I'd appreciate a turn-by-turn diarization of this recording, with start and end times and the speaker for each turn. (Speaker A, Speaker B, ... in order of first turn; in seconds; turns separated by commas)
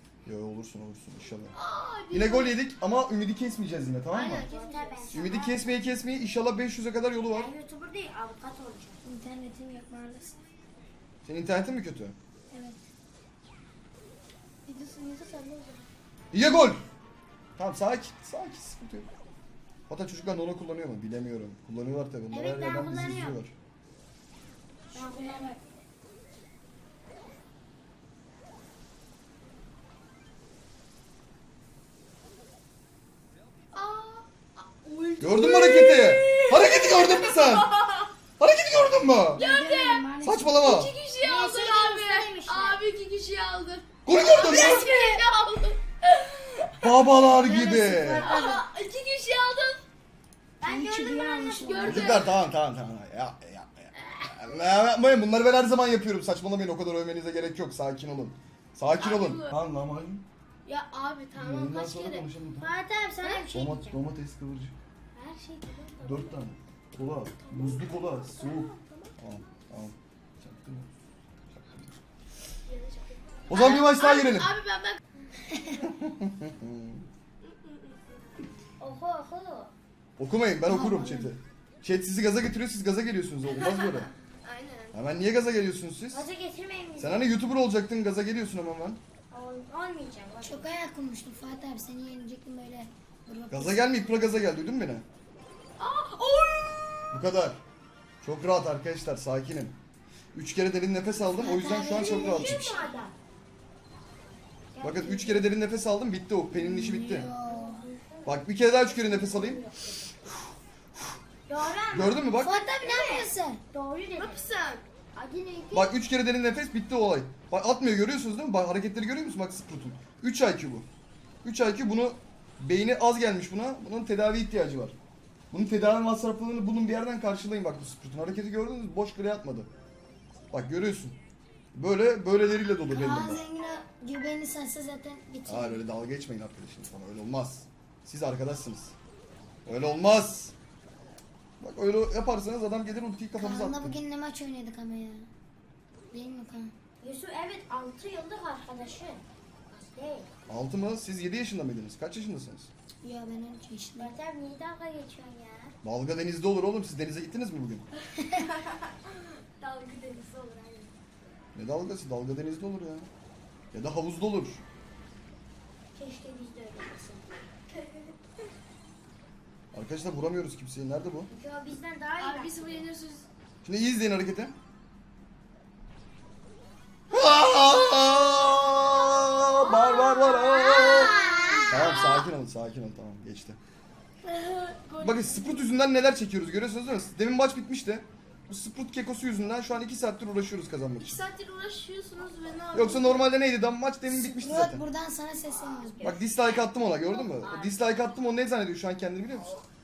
Speaker A: 0.2-1.5, Speaker B: 1.5-2.6, Speaker A: 2.1-4.5, Speaker B: 4.1-5.5, Speaker C: 4.4-5.5, Speaker A: 5.1-7.5, Speaker C: 7.3-9.0, Speaker D: 9.0-10.4, Speaker A: 11.2-12.2, Speaker D: 12.5-12.8, Speaker B: 14.7-15.9, Speaker A: 16.3-16.8, Speaker A: 17.6-19.1, Speaker A: 19.9-23.5, Speaker C: 22.3-23.4, Speaker D: 24.9-25.6, Speaker C: 24.9-25.6, Speaker B: 33.7-38.1, Speaker A: 35.2-37.7, Speaker A: 38.4-39.4, Speaker D: 39.3-40.6, Speaker B: 39.4-40.1, Speaker A: 40.2-40.9, Speaker B: 40.6-46.9, Speaker C: 41.2-42.8, Speaker A: 44.0-44.9, Speaker D: 44.4-45.2, Speaker A: 46.8-48.3, Speaker D: 47.3-48.6, Speaker B: 48.2-49.8, Speaker C: 50.6-51.9, Speaker D: 50.6-52.1, Speaker B: 51.6-52.3, Speaker A: 51.8-60.2, Speaker B: 54.0-54.3, Speaker B: 58.9-59.5, Speaker B: 60.6-62.3, Speaker A: 61.3-62.7, Speaker C: 62.6-64.0, Speaker B: 63.2-63.5, Speaker A: 63.5-64.7, Speaker C: 65.1-66.4, Speaker A: 66.0-70.9, Speaker B: 67.4-69.1, Speaker A: 71.5-71.9, Speaker B: 72.7-75.0, Speaker A: 73.5-74.5, Speaker A: 75.8-77.0, Speaker B: 77.4-78.2, Speaker C: 78.8-79.7, Speaker A: 80.2-84.1, Speaker D: 80.7-81.3, Speaker B: 83.5-84.9, Speaker A: 84.9-86.3, Speaker C: 86.1-87.3, Speaker A: 87.0-89.0, Speaker C: 89.3-90.7, Speaker D: 90.4-93.8, Speaker A: 93.5-95.0, Speaker B: 95.8-96.9, Speaker A: 97.1-97.6, Speaker A: 98.2-99.7, Speaker A: 100.3-102.7, Speaker C: 101.4-103.1, Speaker D: 101.4-102.8, Speaker B: 102.0-102.7, Speaker C: 104.7-105.5, Speaker A: 104.8-107.3, Speaker D: 106.5-107.8, Speaker C: 107.4-110.2, Speaker A: 108.2-109.6, Speaker C: 111.5-112.3, Speaker A: 111.9-112.6, Speaker D: 112.3-113.6, Speaker C: 112.8-114.4, Speaker B: 114.2-114.8, Speaker C: 115.1-115.9, Speaker A: 115.7-120.8, Speaker A: 121.4-124.9, Speaker A: 125.5-129.7, Speaker A: 130.5-131.2, Speaker A: 131.7-133.4, Speaker D: 132.9-135.8, Speaker A: 135.4-138.9, Speaker A: 139.7-140.5, Speaker A: 141.6-144.0, Speaker D: 143.4-145.3, Speaker D: 146.1-146.7, Speaker C: 147.0-150.3, Speaker A: 150.5-152.7, Speaker D: 153.0-154.2, Speaker C: 154.0-155.7, Speaker A: 155.8-157.8, Speaker B: 158.3-160.9, Speaker A: 161.5-163.1, Speaker A: 163.7-164.6, Speaker C: 165.9-167.3, Speaker A: 169.7-171.3, Speaker C: 171.3-172.9, Speaker B: 172.2-173.3, Speaker A: 173.6-174.5, Speaker A: 177.1-181.1, Speaker B: 179.6-182.2, Speaker C: 180.5-181.7, Speaker D: 181.1-181.5, Speaker A: 181.7-183.6, Speaker D: 184.2-184.8, Speaker B: 184.8-185.6, Speaker A: 185.0-191.2, Speaker B: 191.0-193.2, Speaker A: 192.7-194.8, Speaker D: 194.1-196.1, Speaker C: 195.5-196.2, Speaker A: 196.0-199.5, Speaker C: 197.2-197.9